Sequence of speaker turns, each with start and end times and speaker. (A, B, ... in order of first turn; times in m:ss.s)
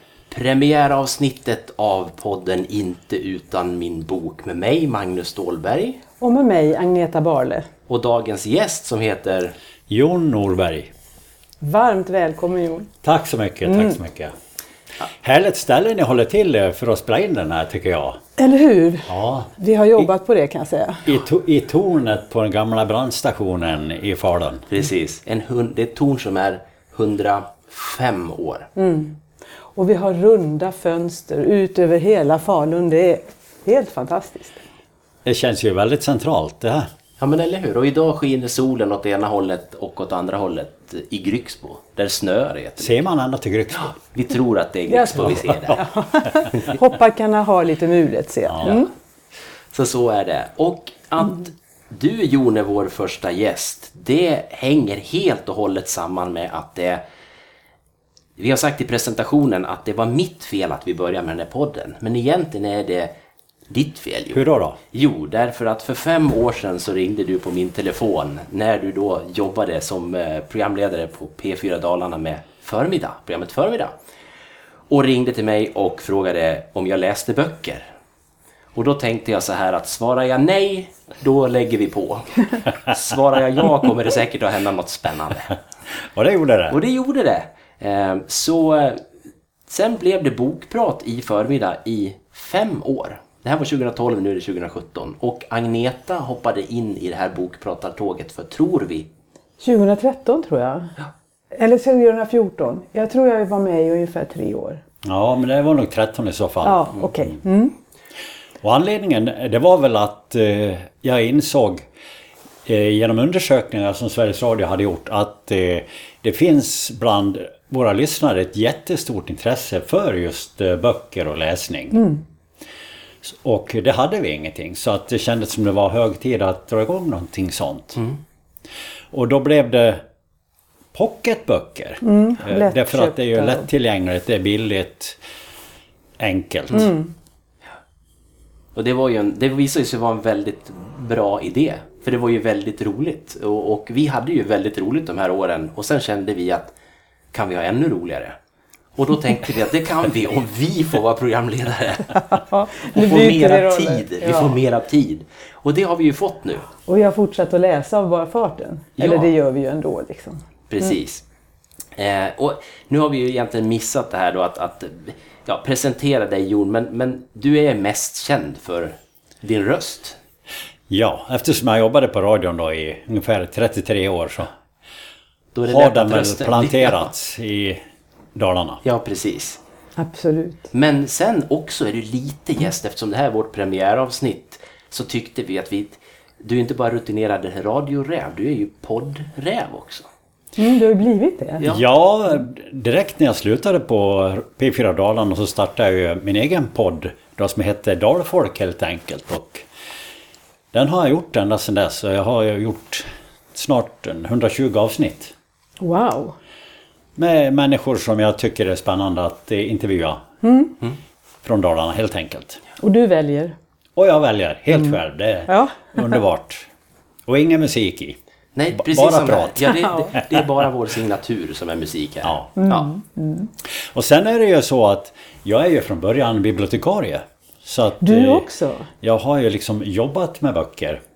0:00.3-0:06.0 A
0:06.2-0:07.7 B
0:07.9-0:09.6 A
0:09.9-0:10.9 C
0:11.6-0:12.9 B
0:13.0-0:14.3 C
0:13.7-0:14.0 B
0:15.1-0:18.2 C
0:18.4-0:21.1 B
0:19.1-0:19.5 C
0:21.0-0:24.6 C
0:24.7-0:28.7 A
0:28.8-0:29.2 B
0:29.8-0:34.6 B
0:35.2-0:36.9 C
0:37.2-0:43.0 A
0:42.8-0:44.0 C
0:43.9-0:45.8 A
0:44.9-0:48.9 B
0:48.5-0:48.8 C
0:49.7-0:57.0 A
0:58.4-1:03.1 A
1:03.7-1:13.9 A
1:04.3-1:04.8 C
1:14.9-1:17.9 A
1:18.8-1:25.6 A
1:26.0-1:26.8 C
1:26.7-1:29.0 A
1:29.7-1:39.1 A
1:39.6-1:41.0 B
1:41.5-1:44.8 B
1:45.0-1:47.3 C
1:46.6-1:47.8 B
1:48.6-1:51.9 C
1:52.7-2:02.1 C
2:01.9-2:02.2 B
2:03.2-2:08.0 C
2:09.1-2:10.0 C
2:10.9-2:15.2 C
2:12.0-2:13.7 B
2:16.2-2:16.9 C
2:16.7-2:17.1 B
2:18.8-2:26.7 A
2:27.3-2:28.4 A
2:29.0-2:32.4 A
2:32.3-2:34.6 B
2:32.9-2:36.7 A
2:36.9-2:40.4 B
2:39.0-2:39.3 A
2:40.7-2:41.2 A
2:42.0-2:50.2 A
2:50.9-2:54.5 C
2:55.6-2:57.1 A
2:55.7-2:57.8 C
2:58.4-2:58.8 C
2:58.8-2:59.6 A
3:00.0-3:00.7 B
3:00.7-3:10.1 A
3:10.6-3:11.6 B
3:11.6-3:11.8 A
3:11.6-3:19.7 C
3:20.7-3:25.3 C
3:25.8-3:26.4 B
3:27.2-3:30.2 C
3:30.4-3:30.7 B
3:31.4-3:32.6 C
3:32.8-3:33.6 B
3:34.0-3:36.7 C
3:35.5-3:36.2 B
3:37.3-3:38.2 C
3:38.6-3:42.9 A
3:38.8-3:39.9 C
3:39.8-3:40.1 B
3:42.6-3:43.5 B
3:43.6-3:48.5 C
3:48.0-3:48.9 B
3:49.0-3:51.0 C